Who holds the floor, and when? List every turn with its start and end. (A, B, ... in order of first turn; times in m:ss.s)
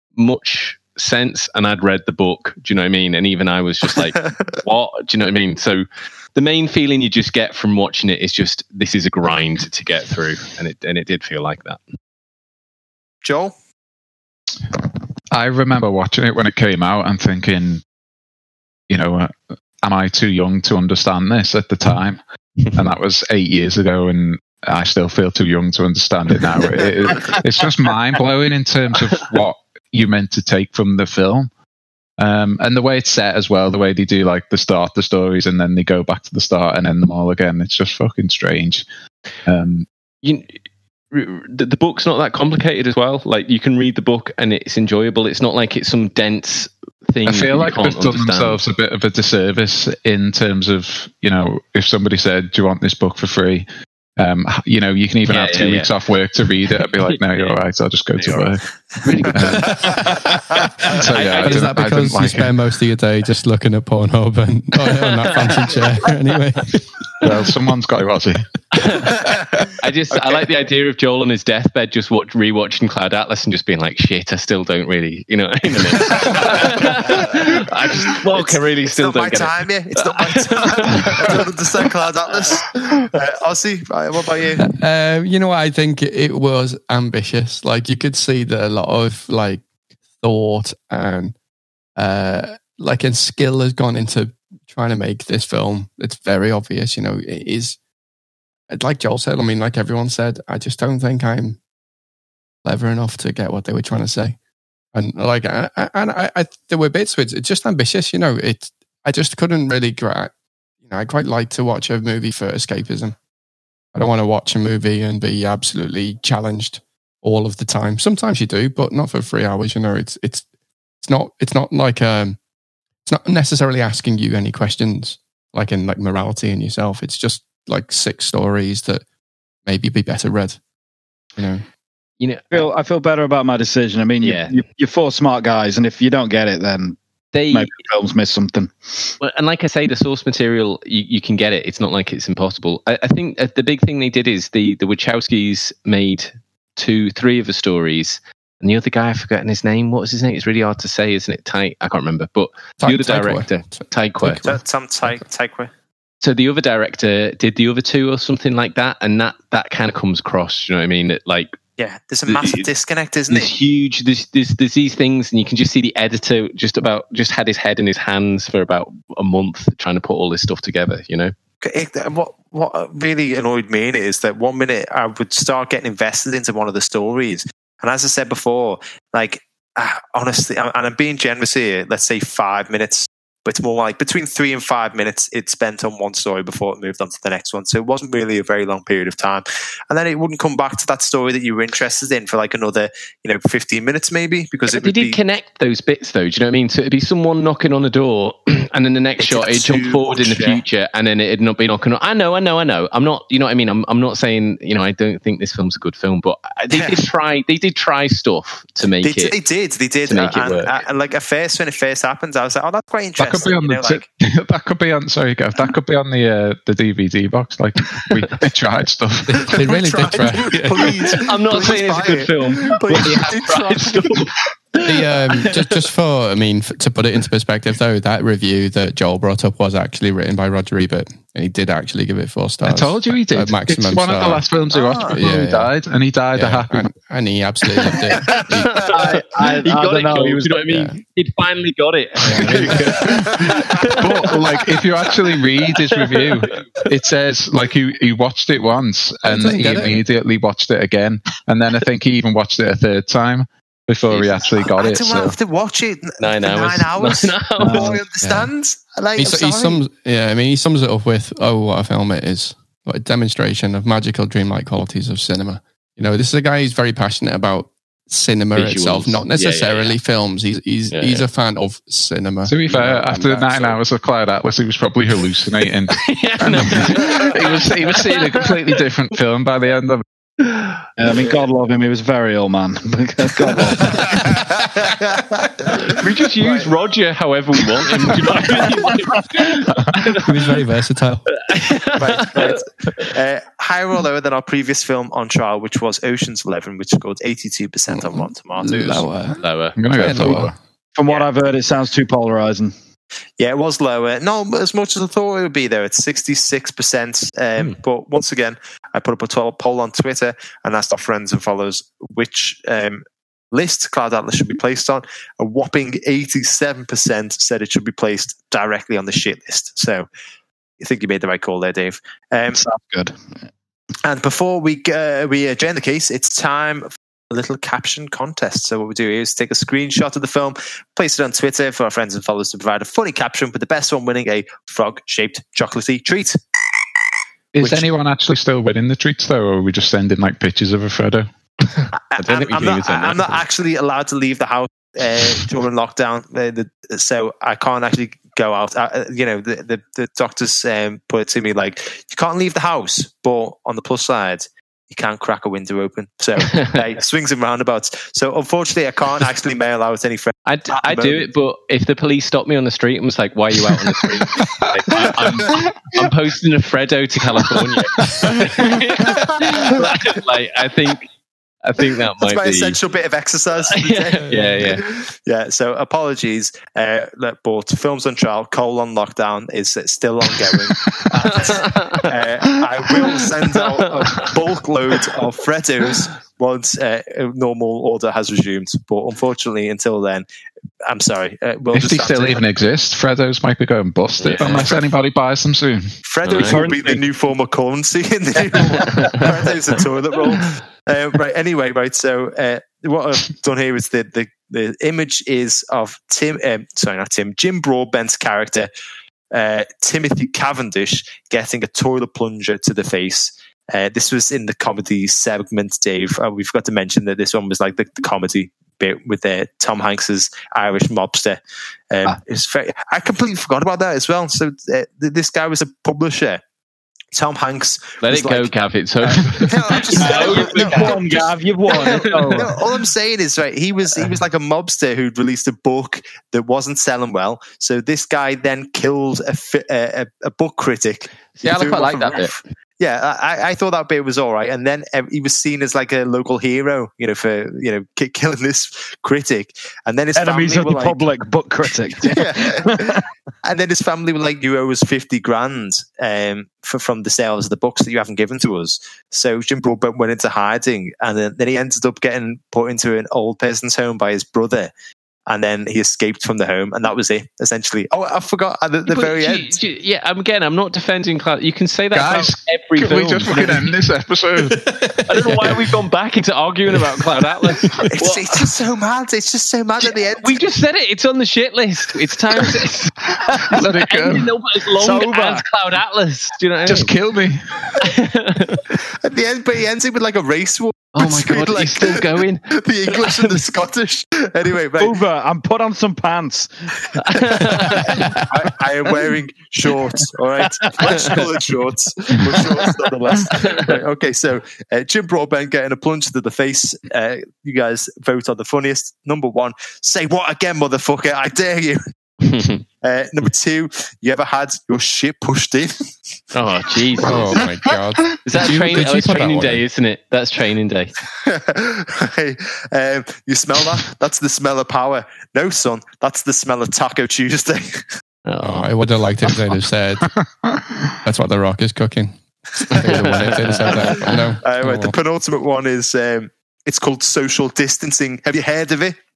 0:00.2-0:11.8 A
0:13.2-0:13.6 B
0:15.3-0:17.8 C
0:18.9-0:22.2 C
0:22.7-0:31.5 C
0:32.2-0:38.8 C
0:39.5-0:39.9 C
0:40.2-0:40.6 A
0:41.1-0:48.6 A
0:47.2-0:53.7 C
0:54.2-1:02.5 C
0:55.3-0:55.9 A
0:57.0-0:57.6 A
0:58.1-0:58.5 A
0:59.0-1:00.1 A
1:00.9-1:01.7 A
1:01.4-1:06.8 D
1:05.2-1:05.6 A
1:07.2-1:09.1 C
1:08.8-1:09.1 A
1:09.5-1:10.4 B
1:09.8-1:21.5 A
1:16.1-1:24.7 B
1:24.6-1:29.6 D
1:30.2-1:31.4 D
1:32.0-1:37.8 D
1:38.7-1:41.6 D
1:42.6-1:44.4 D
1:44.9-1:50.3 D
1:50.8-1:53.2 D
1:54.0-2:00.4 D
2:01.0-2:02.4 D
2:03.1-2:09.0 D
2:09.7-2:10.6 D
2:11.4-2:11.6 D
2:12.2-2:12.7 A
2:12.5-2:17.0 E
2:14.2-2:14.5 A
2:17.3-2:17.8 A
2:17.5-2:19.1 E
2:19.2-2:34.5 A
2:32.8-2:34.6 D
2:34.5-2:35.7 B
2:36.2-2:41.6 A
2:41.8-2:43.5 B
2:42.3-2:42.7 A
2:43.3-2:51.3 A
2:51.6-3:15.2 B
3:14.7-3:29.4 A
3:19.2-3:20.6 B
3:26.7-3:27.1 B
3:29.0-3:34.0 B
3:30.1-3:30.8 A
3:33.2-3:39.6 C
3:39.3-3:41.1 D
3:39.5-3:44.2 B
3:41.2-3:45.7 A
3:44.8-3:54.5 D
3:52.7-3:56.9 C
3:54.7-3:55.2 B
3:55.0-3:55.7 D
3:56.3-3:58.9 D
3:57.8-4:04.4 A
3:58.9-4:00.6 E
4:00.7-4:01.0 D
4:02.3-4:03.2 D
4:02.4-4:15.4 C
4:03.5-4:04.3 B
4:05.6-4:06.8 A
4:14.1-4:14.4 A
4:14.8-4:19.8 B
4:16.2-4:18.0 A
4:17.6-4:18.0 E
4:18.2-4:18.5 D
4:19.2-4:33.8 D
4:28.6-4:30.0 A
4:30.9-4:31.3 A
4:32.5-4:40.0 C
4:35.9-4:38.8 A
4:40.4-4:41.4 A
4:41.0-4:44.2 E
4:44.1-4:46.7 B
4:45.9-4:50.6 A
4:48.8-4:49.2 E
4:49.7-4:50.0 C
4:50.2-4:51.3 D
4:51.4-4:53.1 A
4:52.0-4:59.1 B
4:58.6-4:59.4 D
4:59.4-4:59.8 A
4:59.8-5:00.6 C
4:59.9-5:00.5 D
5:01.0-5:02.7 E
5:03.4-5:20.1 B
5:20.8-5:22.6 B
5:22.6-5:23.2 E
5:24.0-5:36.4 B
5:37.5-5:41.3 C
5:37.6-5:37.8 B
5:41.7-5:43.4 A
5:41.9-6:01.3 B
6:00.5-6:11.1 A
6:08.0-6:08.4 C
6:11.6-6:12.8 A
6:12.2-6:30.3 B
6:13.7-6:14.8 A
6:21.2-6:22.2 A
6:23.6-6:24.3 A
6:30.8-6:32.4 B
6:31.7-6:36.0 C
6:34.2-6:34.7 A
6:34.4-6:34.7 B
6:36.0-6:48.7 B
6:36.2-6:36.7 A
6:36.4-6:37.0 E
6:39.0-6:39.2 A
6:49.3-7:01.4 B
7:01.9-7:06.4 B
7:07.1-7:08.5 B
7:08.0-7:12.5 A
7:09.1-7:31.0 B
7:10.0-7:12.5 E
7:21.4-7:22.4 A
7:30.2-7:33.0 E
7:32.0-7:44.7 B
7:45.3-7:49.6 B
7:48.8-7:53.7 A
7:51.9-7:54.8 C
7:54.7-7:58.5 A
7:57.9-8:00.4 B
7:59.8-8:03.0 A
8:03.2-8:04.3 C
8:03.5-8:06.9 A
8:04.8-8:05.4 E
8:06.7-8:07.7 C
8:07.8-8:08.7 A
8:09.0-8:15.0 B
8:11.0-8:12.5 A
8:13.0-8:13.4 A
8:14.8-8:16.5 E
8:17.0-8:18.2 A
8:17.1-8:18.2 E
8:17.5-8:31.8 B
8:20.8-8:21.2 E
8:20.8-8:21.4 A
8:22.2-8:22.6 E
8:23.3-8:23.6 A
8:32.2-8:32.6 A
8:32.8-8:35.8 B
8:36.3-8:37.4 A
8:37.0-8:39.6 D
8:38.2-8:41.0 A
8:41.2-8:47.9 B
8:48.3-8:49.3 A
8:48.4-8:50.1 D
8:50.2-8:51.0 C
8:51.0-8:52.2 D
8:52.7-8:54.3 A
8:52.7-8:55.0 D
8:54.0-8:59.0 B